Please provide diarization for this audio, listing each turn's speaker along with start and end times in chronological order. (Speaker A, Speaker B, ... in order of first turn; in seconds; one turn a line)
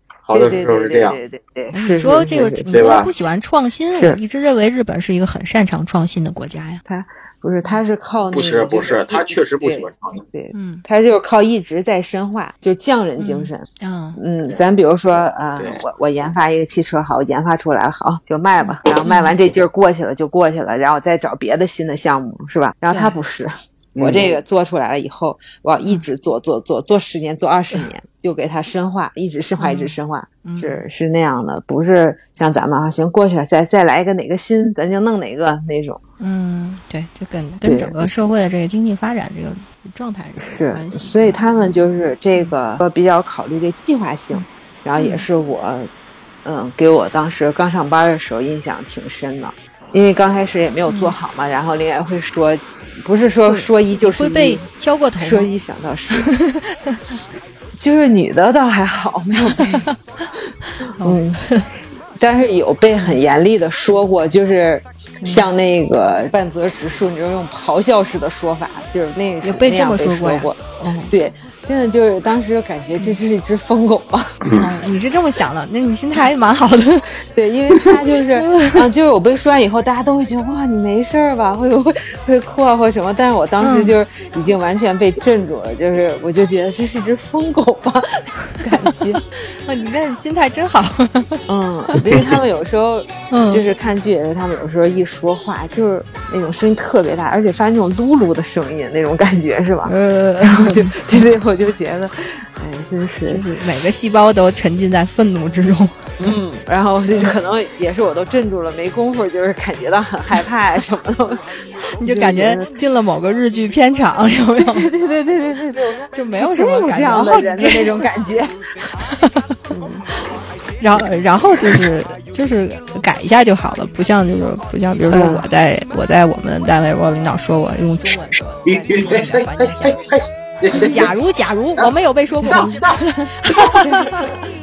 Speaker A: 0.2-1.2
Speaker B: 0.3-3.0
Speaker C: 1.7-6.8
Speaker A: 2.7-3.1
Speaker B: 3.9-4.2
Speaker B: 6.8-13.7
Speaker A: 8.3-10.2
Speaker C: 10.5-10.8
Speaker C: 13.2-14.2
Speaker B: 14.2-36.0
Speaker C: 18.6-19.4
Speaker C: 22.9-23.2
Speaker A: 24.0-24.3
Speaker C: 29.6-30.8
Speaker C: 36.2-41.4
Speaker B: 37.6-38.3
Speaker B: 40.4-45.9
Speaker C: 45.0-45.3
Speaker B: 46.4-54.6
Speaker C: 50.9-51.2
Speaker C: 53.5-55.5
Speaker B: 55.2-56.3
Speaker C: 56.2-57.0
Speaker B: 57.8-59.9
Speaker C: 59.5-60.0
Speaker C: 60.9-61.7
Speaker B: 60.9-61.4
Speaker B: 62.2-74.3
Speaker C: 65.2-65.5
Speaker C: 69.4-71.2
Speaker C: 74.5-77.1
Speaker B: 77.3-89.2
Speaker C: 78.4-78.8
Speaker C: 83.6-84.0
Speaker C: 89.4-91.4
Speaker B: 91.5-103.5
Speaker C: 93.3-93.7
Speaker C: 99.9-101.3
Speaker C: 103.2-106.0
Speaker B: 106.2-112.8
Speaker C: 112.0-114.9
Speaker B: 114.6-118.9
Speaker C: 116.1-117.9
Speaker B: 119.7-120.0
Speaker C: 120.8-130.0
Speaker B: 125.1-125.5
Speaker A: 128.7-131.1
Speaker C: 130.7-134.3
Speaker B: 130.7-131.1
Speaker B: 132.4-132.7
Speaker A: 132.4-133.9
Speaker B: 133.8-134.2